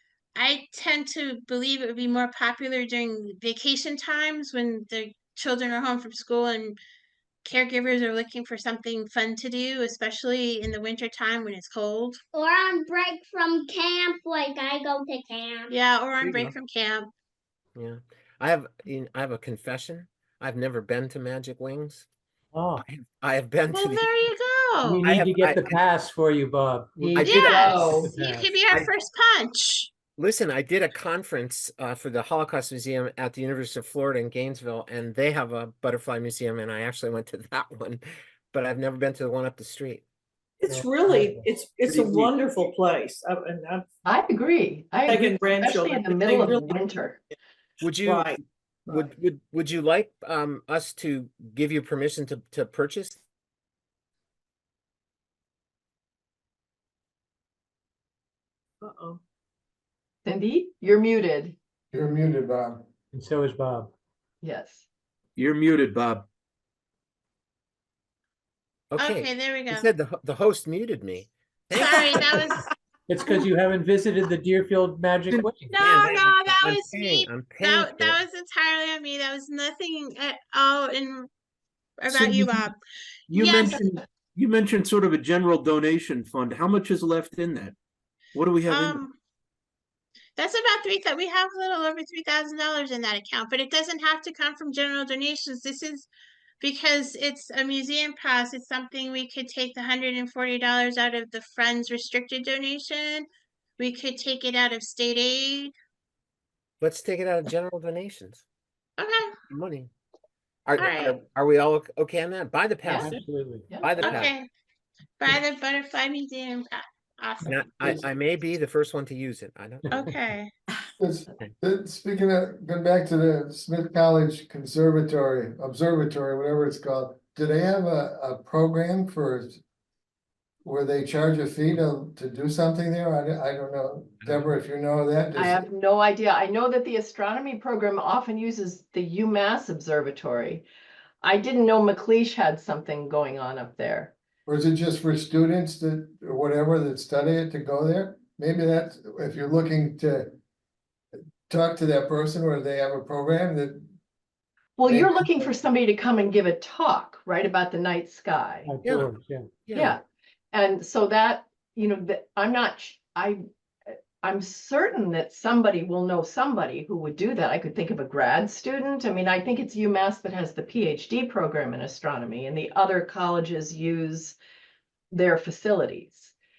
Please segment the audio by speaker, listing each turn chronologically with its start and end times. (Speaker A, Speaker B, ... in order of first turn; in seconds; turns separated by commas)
Speaker A: 0.3-6.8, Speaker A: 7.4-12.2, Speaker B: 12.3-15.7, Speaker A: 15.7-17.1, Speaker C: 16.2-16.5, Speaker D: 17.7-22.1, Speaker E: 22.5-22.8, Speaker D: 22.8-24.1, Speaker A: 23.7-25.1, Speaker E: 24.8-28.6, Speaker D: 25.0-25.8, Speaker D: 27.1-27.5, Speaker A: 27.2-29.9, Speaker F: 27.5-28.1, Speaker D: 30.2-40.0, Speaker G: 40.6-43.9, Speaker E: 40.7-41.5, Speaker C: 41.9-42.3, Speaker F: 44.0-47.2, Speaker G: 45.0-46.9, Speaker D: 47.8-53.2, Speaker G: 48.0-49.1, Speaker G: 58.8-59.2, Speaker F: 60.2-61.5, Speaker H: 61.9-62.9, Speaker E: 63.1-63.9, Speaker F: 64.4-64.8, Speaker C: 65.4-66.3, Speaker D: 68.9-72.4, Speaker A: 69.0-69.9, Speaker A: 71.7-72.6, Speaker E: 73.1-75.8, Speaker A: 75.7-81.3, Speaker D: 75.8-78.2, Speaker A: 82.0-82.8, Speaker C: 82.1-82.5, Speaker C: 83.3-87.7, Speaker A: 83.3-83.8, Speaker C: 88.3-89.0, Speaker A: 88.7-89.2, Speaker A: 90.3-96.1, Speaker A: 96.6-103.3, Speaker A: 103.8-105.7, Speaker D: 106.8-108.4, Speaker A: 109.0-109.3, Speaker D: 109.5-109.9, Speaker D: 110.7-113.2, Speaker A: 110.8-111.2, Speaker E: 112.8-113.7, Speaker F: 113.7-114.0, Speaker D: 113.8-114.3, Speaker A: 114.0-114.5, Speaker A: 115.2-117.6, Speaker D: 117.5-120.1, Speaker A: 119.9-120.5, Speaker H: 121.0-129.6, Speaker H: 130.6-135.7, Speaker D: 134.2-134.5, Speaker F: 135.3-140.7, Speaker F: 141.2-144.1, Speaker H: 144.4-150.3, Speaker H: 151.5-153.9, Speaker F: 154.8-158.7, Speaker H: 154.9-155.2, Speaker E: 158.6-159.5, Speaker D: 158.8-159.1, Speaker D: 159.6-160.0, Speaker F: 160.5-174.4, Speaker F: 175.1-176.3